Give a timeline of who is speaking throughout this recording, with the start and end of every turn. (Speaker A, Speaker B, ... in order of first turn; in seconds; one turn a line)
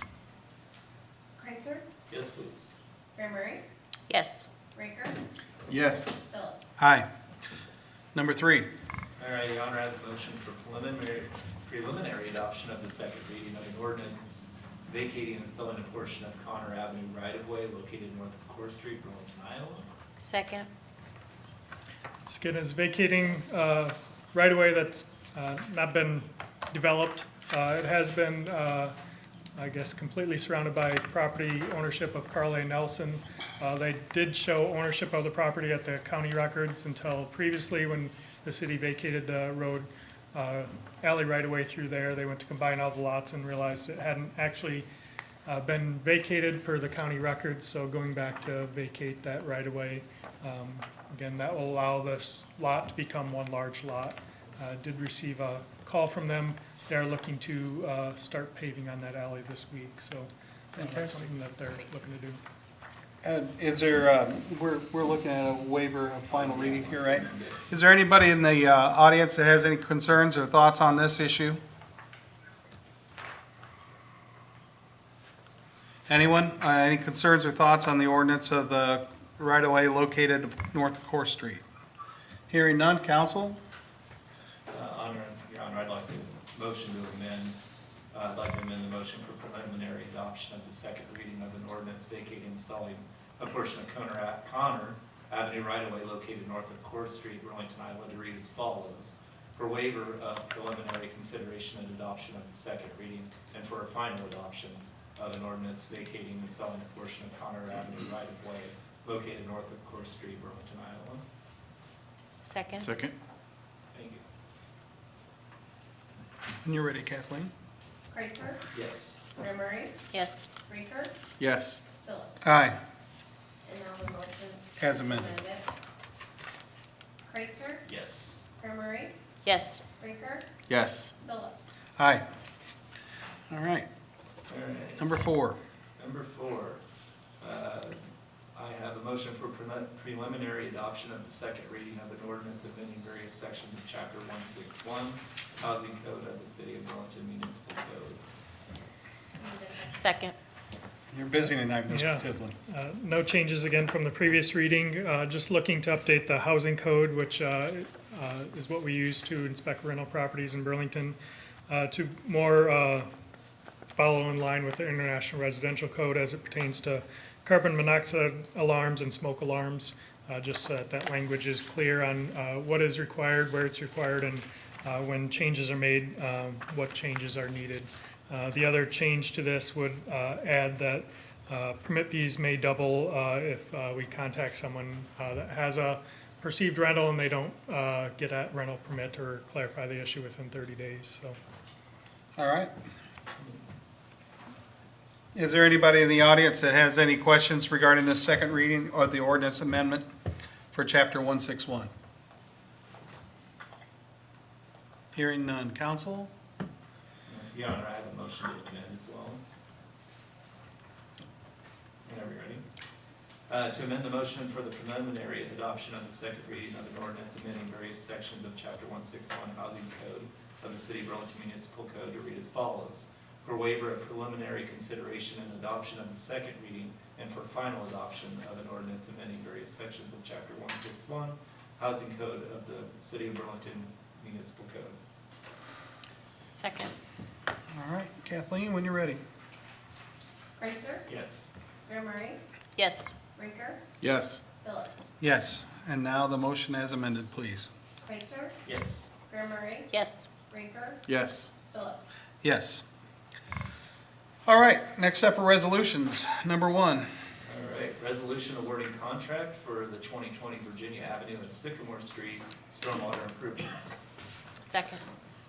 Speaker A: 1.4-1.8
Speaker B: 2.1-2.7
Speaker A: 3.1-3.6
Speaker C: 4.1-4.5
Speaker A: 4.7-5.2
Speaker D: 5.7-6.2
Speaker A: 6.3-6.7
Speaker E: 6.8-7.0
Speaker E: 8.1-8.7
Speaker B: 9.2-19.9
Speaker C: 20.2-20.7
Speaker F: 22.3-28.9
Speaker F: 29.6-44.9
Speaker F: 45.5-62.4
Speaker E: 60.8-61.3
Speaker E: 63.2-71.6
Speaker B: 66.3-67.6
Speaker E: 76.1-81.6
Speaker E: 82.5-83.6
Speaker B: 84.7-87.5
Speaker B: 88.1-111.2
Speaker C: 112.4-112.9
Speaker D: 112.8-113.1
Speaker B: 113.9-114.2
Speaker E: 116.6-117.5
Speaker A: 118.1-118.6
Speaker B: 118.7-119.3
Speaker A: 119.4-120.0
Speaker C: 120.1-120.5
Speaker A: 120.7-121.1
Speaker D: 121.4-121.8
Speaker A: 122.0-122.4
Speaker E: 122.4-122.8
Speaker A: 123.6-125.6
Speaker E: 124.8-125.4
Speaker A: 127.2-127.8
Speaker B: 127.8-128.4
Speaker A: 128.6-129.1
Speaker C: 129.4-129.8
Speaker A: 130.0-130.4
Speaker D: 130.7-131.1
Speaker A: 131.2-131.7
Speaker E: 132.0-132.2
Speaker E: 133.5-133.8
Speaker B: 134.5-135.2
Speaker E: 135.0-135.6
Speaker B: 136.0-136.8
Speaker B: 137.4-138.0
Speaker B: 138.5-148.2
Speaker A: 149.4-150.1
Speaker C: 150.0-150.3
Speaker E: 151.1-152.6
Speaker F: 151.4-161.2
Speaker F: 161.7-163.1
Speaker F: 163.9-191.4
Speaker E: 192.4-192.7
Speaker E: 195.3-200.1
Speaker E: 200.7-201.9
Speaker E: 205.1-206.3
Speaker B: 207.2-209.4
Speaker B: 212.0-212.6
Speaker B: 213.5-235.0
Speaker C: 236.6-236.9
Speaker E: 237.7-239.2
Speaker A: 240.6-241.0
Speaker B: 241.1-241.5
Speaker A: 241.8-242.4
Speaker C: 242.8-243.1
Speaker A: 243.3-243.8
Speaker D: 244.0-244.4
Speaker A: 244.6-245.0
Speaker E: 245.2-247.7
Speaker A: 248.0-248.5
Speaker B: 248.6-249.1
Speaker A: 249.3-249.9
Speaker C: 249.9-250.3
Speaker A: 250.5-250.9
Speaker D: 251.1-251.5
Speaker A: 251.7-252.1
Speaker E: 252.4-252.8
Speaker E: 254.4-257.1
Speaker B: 257.4-264.0
Speaker C: 264.7-265.0